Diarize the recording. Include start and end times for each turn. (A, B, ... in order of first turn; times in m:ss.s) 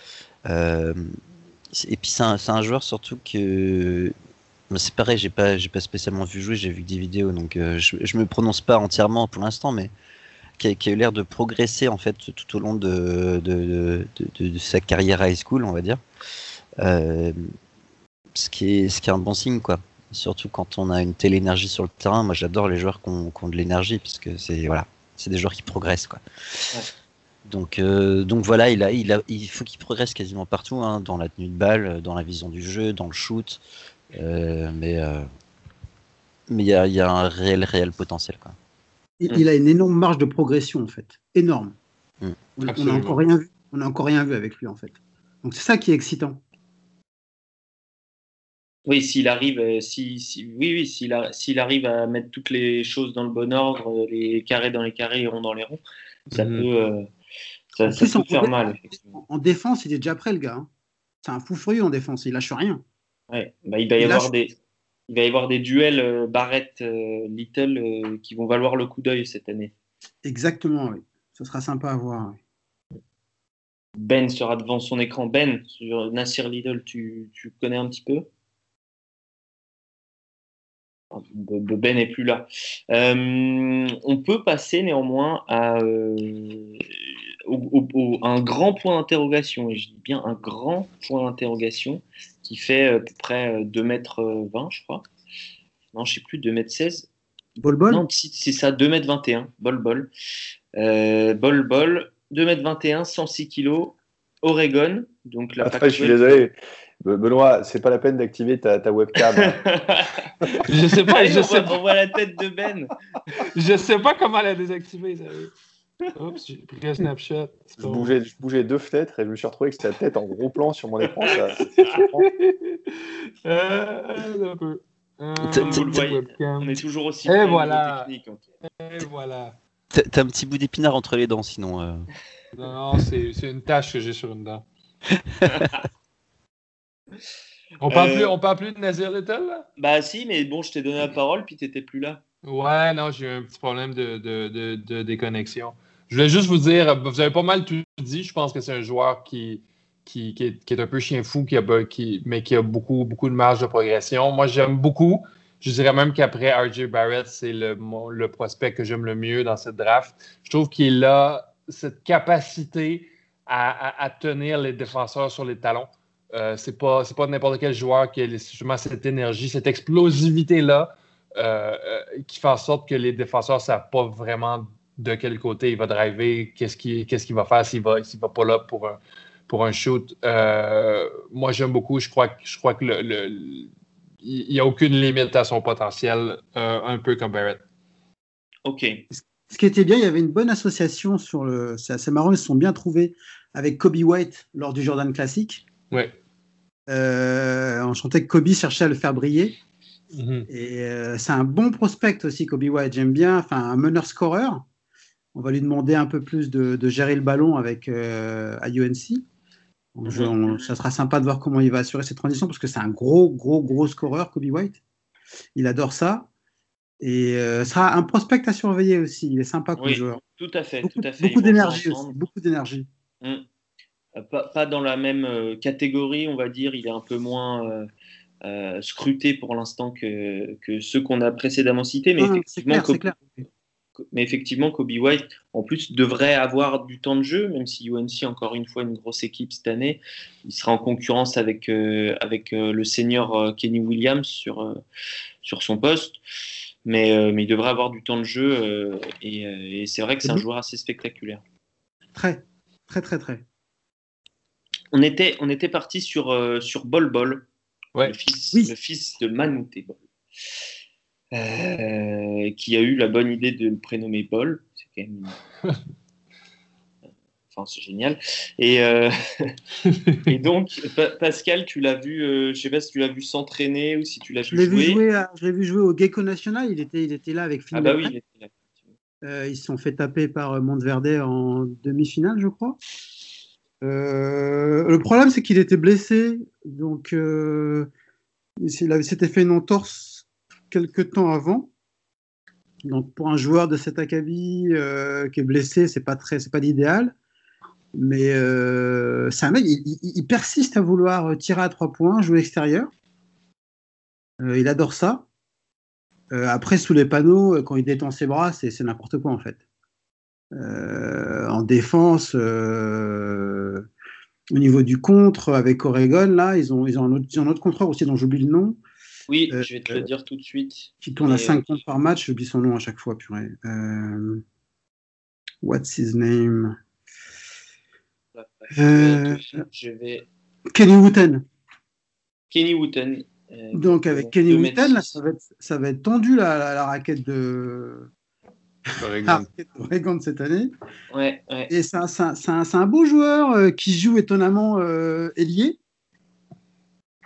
0:00.5-0:01.2 A
0:01.7-0:04.1 A
0:04.7-0:09.9 A
0:10.6-0:16.0 A
0:16.8-0:17.4 A
0:18.3-0:26.7 A
0:27.5-0:33.6 A
0:34.1-0:35.3 A
0:36.5-0:38.6 A
0:39.2-0:41.8 B
0:42.6-0:46.4 B
0:42.7-0:43.2 C
0:48.9-0:55.8 D
0:56.3-0:56.7 C
0:56.3-0:57.1 D
0:57.7-0:59.2 D
0:57.9-1:00.7 B
1:01.2-1:02.8 B
1:03.3-1:04.5 D
1:04.0-1:04.3 B
1:05.1-1:09.7 D
1:10.2-1:12.4 B
1:14.0-1:18.3 D
1:21.1-1:26.9 D
1:27.5-1:35.1 D
1:35.9-1:37.1 D
1:37.6-1:38.0 B
1:37.9-1:40.1 D
1:40.8-1:46.4 D
1:45.6-1:49.6 E
1:49.2-1:50.3 D
1:50.6-1:51.8 C
1:51.1-1:52.9 D
1:53.4-1:55.5 C
1:56.2-1:58.1 C
1:57.8-2:02.3 E
2:01.9-2:02.9 C
2:03.4-2:08.1 C
2:05.4-2:05.8 A
2:05.6-2:08.4 D
2:08.8-2:09.6 C
2:09.9-2:12.1 A
2:12.6-2:14.6 C
2:15.2-2:15.7 A
2:15.5-2:15.8 D
2:17.8-2:19.7 C
2:17.9-2:18.4 D
2:19.8-2:22.2 D
2:22.4-3:03.7 C
3:04.2-3:07.6 C
3:08.6-3:09.0 D
3:09.1-3:15.6 B
3:16.9-3:19.6 B
3:20.1-3:20.5 C
3:20.5-3:24.6 B
3:25.4-3:29.2 B
3:30.0-3:34.8 B
3:30.1-3:30.7 D
3:35.6-3:36.3 B
3:37.0-3:40.2 B
3:39.8-3:42.2 D
3:40.8-3:42.9 B
3:44.2-3:47.9 D
3:48.4-3:53.1 D
3:52.2-3:53.4 B
3:54.0-4:04.8 D
4:05.4-4:06.2 D
4:06.9-4:11.4 D
4:12.1-4:13.4 B
4:14.9-4:17.5 D
4:18.0-4:20.0 D
4:21.3-4:25.4 D
4:27.5-4:29.6 D
4:29.9-4:30.2 C
4:30.2-4:35.0 D
4:34.5-4:38.1 B
4:37.7-4:38.6 D
4:39.2-4:42.8 B
4:43.8-4:47.9 B
4:48.6-4:51.7 B
4:52.8-4:57.2 B
4:58.0-5:02.9 B
5:04.4-5:05.2 B
5:06.3-5:09.6 B
5:10.5-5:13.9 B
5:14.5-5:18.8 B
5:19.3-5:21.8 D
5:19.5-5:20.0 B
5:21.0-5:24.4 B
5:25.6-5:26.8 B
5:28.4-5:30.3 D
5:28.7-5:29.6 B
5:30.7-5:31.4 B
5:32.5-5:35.2 D
5:33.7-5:38.1 B
5:39.0-5:39.5 C
5:39.2-5:40.7 B
5:41.1-5:41.7 D
5:41.7-5:45.8 B